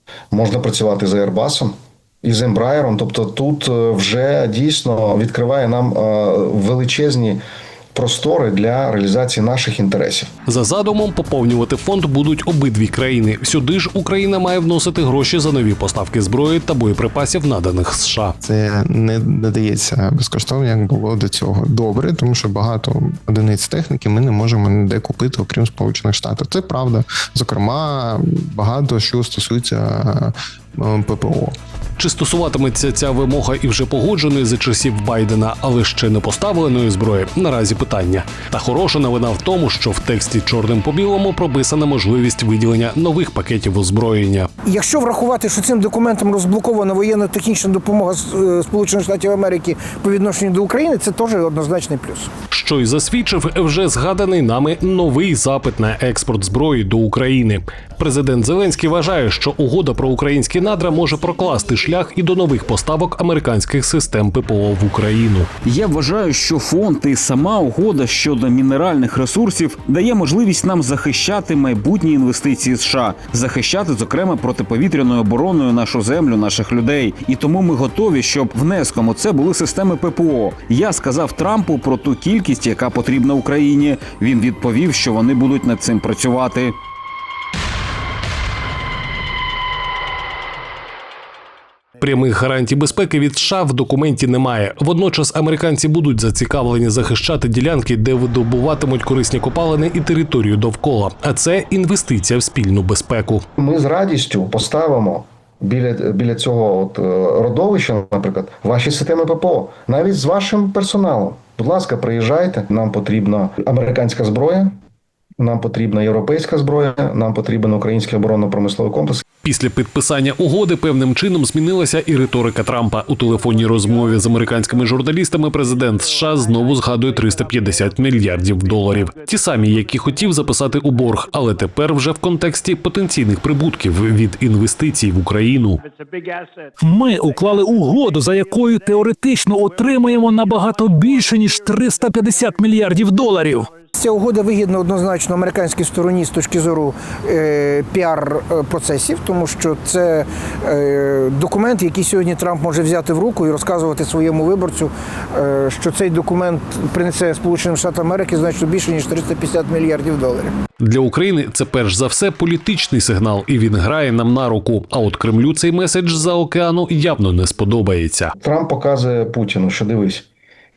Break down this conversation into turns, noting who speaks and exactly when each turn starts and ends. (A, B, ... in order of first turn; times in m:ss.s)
0:00.3-0:07.4 A
0:07.9-0:10.3 A
0:10.5-0:18.3 B
0:18.4-0:31.5 C
0:32.0-0:44.5 B
0:44.6-0:52.3 D
0:52.5-1:05.5 B
1:05.6-1:26.8 E
1:32.0-1:43.4 B
1:43.6-1:54.7 A
1:55.4-1:59.2 A
1:59.4-2:15.8 B
2:16.8-2:23.7 F
2:23.9-2:40.6 D
2:40.8-2:48.3 B
2:48.4-2:50.3 A